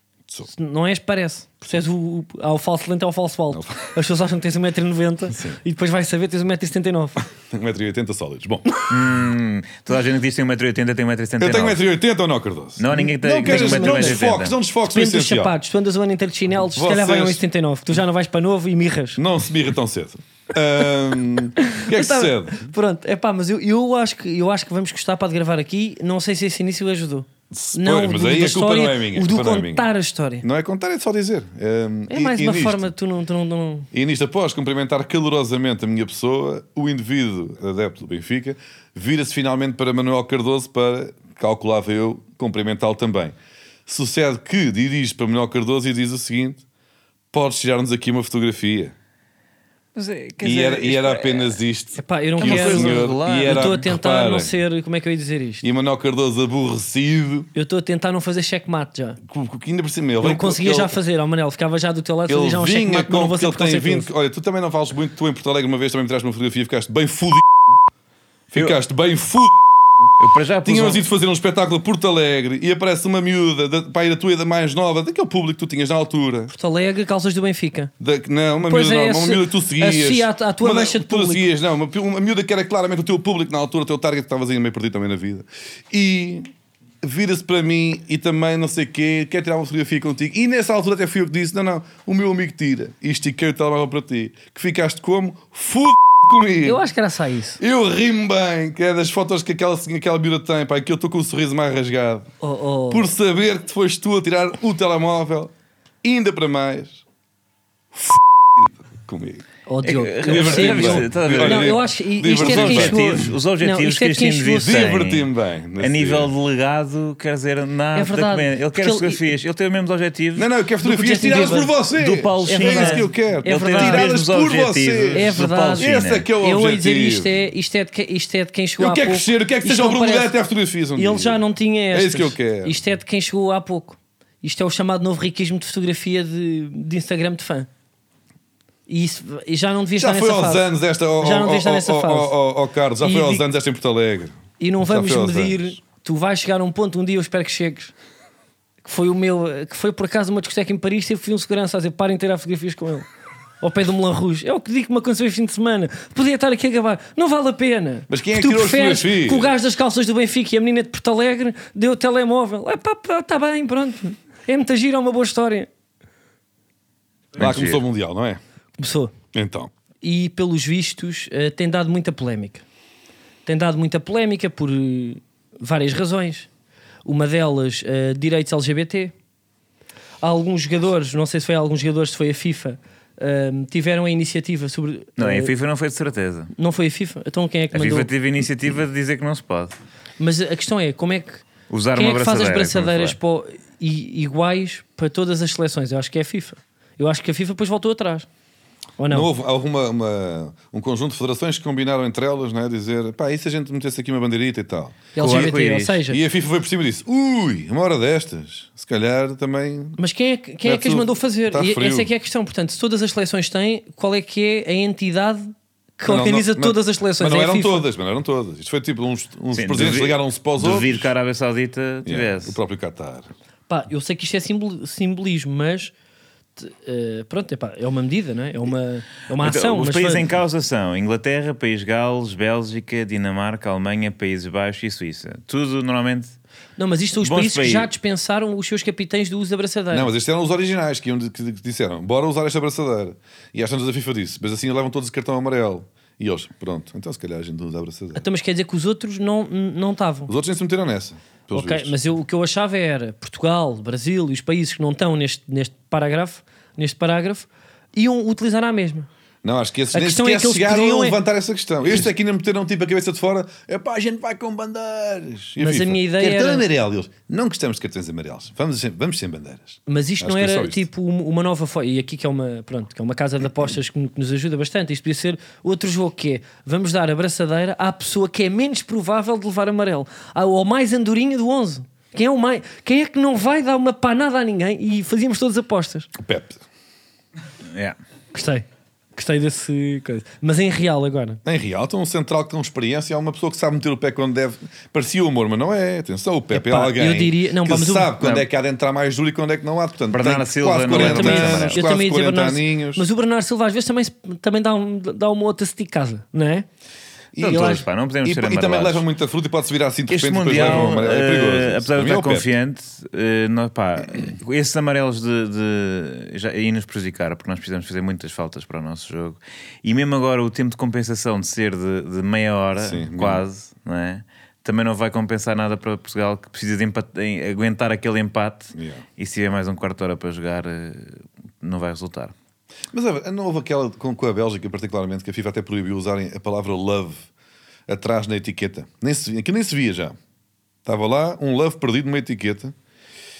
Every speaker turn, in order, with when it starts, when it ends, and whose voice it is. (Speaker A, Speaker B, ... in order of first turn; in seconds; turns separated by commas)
Speaker A: 0.5-7.2, Speaker B: 3.5-3.9, Speaker B: 5.3-5.6, Speaker B: 7.4-8.7, Speaker C: 8.9-11.8, Speaker B: 11.4-15.5, Speaker C: 12.8-14.6, Speaker A: 13.4-14.2, Speaker A: 14.9-19.2, Speaker B: 16.7-17.4, Speaker B: 19.2-22.7, Speaker A: 21.6-30.4, Speaker B: 27.5-29.9, Speaker B: 30.4-32.9, Speaker A: 32.1-33.9, Speaker B: 33.9-46.6, Speaker B: 47.3-48.9, Speaker C: 49.9-51.6, Speaker B: 50.4-54.5, Speaker A: 52.0-55.6, Speaker C: 52.4-53.8, Speaker B: 55.6-57.5, Speaker A: 57.5-59.2, Speaker B: 59.2-61.0, Speaker A: 60.2-64.1, Speaker B: 62.3-67.8, Speaker B: 68.5-70.1, Speaker C: 70.2-71.0, Speaker B: 70.6-76.5, Speaker A: 76.5-77.9, Speaker B: 78.0-86.5, Speaker A: 78.6-81.4, Speaker B: 87.0-96.8, Speaker A: 96.6-97.6, Speaker B: 97.6-102.3, Speaker A: 102.4-103.1, Speaker B: 102.9-105.5, Speaker B: 106.0-107.0, Speaker B: 107.9-109.4, Speaker A: 109.7-114.8, Speaker C: 109.8-111.8, Speaker B: 110.2-113.3, Speaker C: 112.4-120.5, Speaker B: 114.6-116.3, Speaker A: 118.0-119.2, Speaker B: 120.3-127.4, Speaker A: 120.8-121.7, Speaker C: 122.0-126.2, Speaker A: 122.4-124.1, Speaker A: 125.1-130.3, Speaker B: 128.8-132.8, Speaker A: 130.9-137.7, Speaker A: 138.9-142.3, Speaker B: 139.9-145.8, Speaker A: 143.0-143.4, Speaker A: 144.6-147.9, Speaker A: 148.8-153.1, Speaker A: 153.6-165.7, Speaker B: 158.1-159.5, Speaker C: 167.3-167.8, Speaker B: 167.3-168.4, Speaker A: 168.8-169.1, Speaker B: 169.3-169.7, Speaker A: 170.0-172.6, Speaker A: 173.4-176.5, Speaker A: 177.0-179.1, Speaker A: 180.2-185.5, Speaker C: 185.2-186.5, Speaker A: 186.5-188.1, Speaker C: 187.7-189.7, Speaker A: 190.2-191.4, Speaker C: 191.7-193.2, Speaker A: 191.9-198.3, Speaker A: 199.0-199.3, Speaker B: 199.1-205.5, Speaker A: 205.1-206.2, Speaker C: 205.2-206.0, Speaker B: 206.1-210.0, Speaker A: 210.0-217.8, Speaker B: 210.6-212.1, Speaker B: 216.1-221.1, Speaker C: 219.5-222.6, Speaker B: 222.1-223.3, Speaker A: 223.7-225.9, Speaker A: 226.6-230.2, Speaker C: 229.4-236.3, Speaker A: 236.8-240.1, Speaker C: 237.2-237.9, Speaker B: 239.9-248.2, Speaker A: 248.1-250.3, Speaker B: 250.3-251.9, Speaker A: 251.5-259.1, Speaker B: 259.4-270.9, Speaker A: 259.9-261.2, Speaker A: 265.6-266.6, Speaker A: 269.9-286.1, Speaker B: 286.1-286.6, Speaker A: 288.3-288.6, Speaker A: 289.1-291.4, Speaker B: 291.4-303.0, Speaker A: 296.5-298.1, Speaker C: 298.2-298.4, Speaker C: 300.1-301.8, Speaker A: 300.9-306.7, Speaker B: 307.3-312.5, Speaker C: 307.4-309.0, Speaker C: 310.1-332.3, Speaker B: 322.8-323.4, Speaker B: 328.7-329.1, Speaker B: 332.9-337.3, Speaker B: 337.9-340.2, Speaker B: 340.8-342.7